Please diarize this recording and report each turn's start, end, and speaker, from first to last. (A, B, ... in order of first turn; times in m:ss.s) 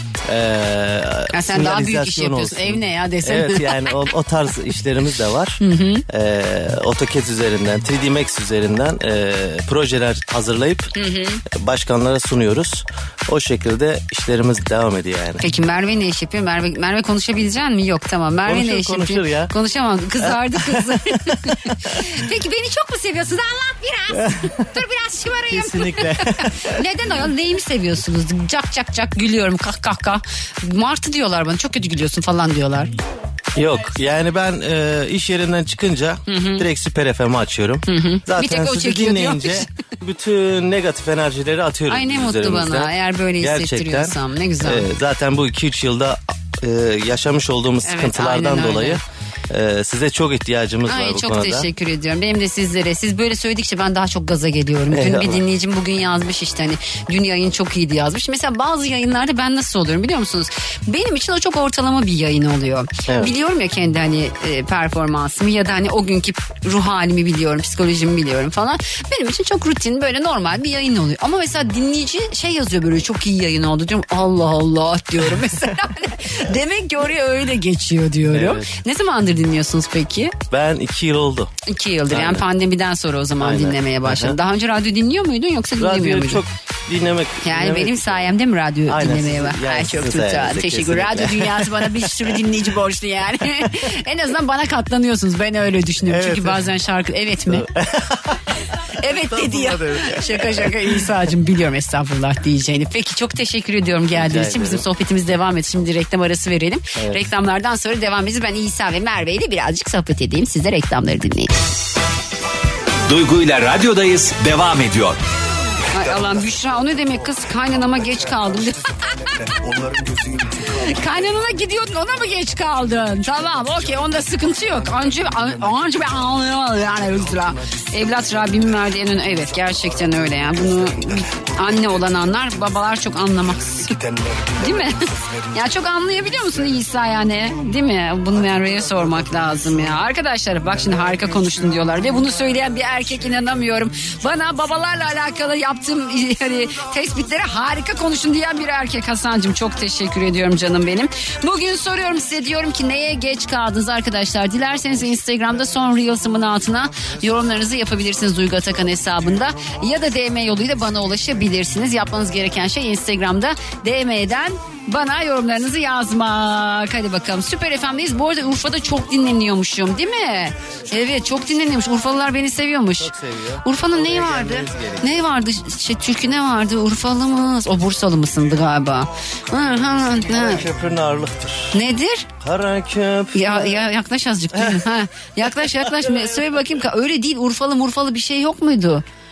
0:00.3-0:10.9 A
0:01.3-0:03.9 B
0:05.6-0:06.0 B
0:10.9-0:11.4 B
0:11.4-0:15.4 A
0:15.4-0:32.9 B
0:18.4-0:19.5 A
0:20.2-0:21.9 A
0:24.1-0:24.6 A
0:25.5-0:26.8 A
0:33.6-0:51.7 A
0:36.3-0:36.6 B
0:37.9-0:39.7 B
0:41.9-0:44.8 B
0:47.8-0:49.0 B
0:50.9-1:20.3 B
0:54.9-0:55.4 A
1:03.1-1:03.3 A
1:18.3-1:18.8 A
1:20.5-1:21.5 A
1:21.6-1:26.4 B
1:22.1-1:22.4 A
1:23.4-1:24.4 A
1:25.8-1:28.3 A
1:27.4-1:37.6 B
1:28.9-1:32.4 A
1:36.0-1:36.6 A
1:37.5-1:41.0 A
1:39.0-1:51.5 B
1:44.1-1:44.8 A
1:47.0-1:47.2 A
1:53.1-1:55.2 C
1:55.9-1:59.4 B
2:00.5-2:14.0 B
2:14.6-2:53.1 B
2:53.0-2:55.3 A
2:53.6-3:00.6 B
3:00.1-3:01.8 A
3:01.7-3:02.3 B
3:02.4-3:03.8 A
3:03.3-3:09.0 B
3:04.5-3:04.9 A
3:05.4-3:06.5 A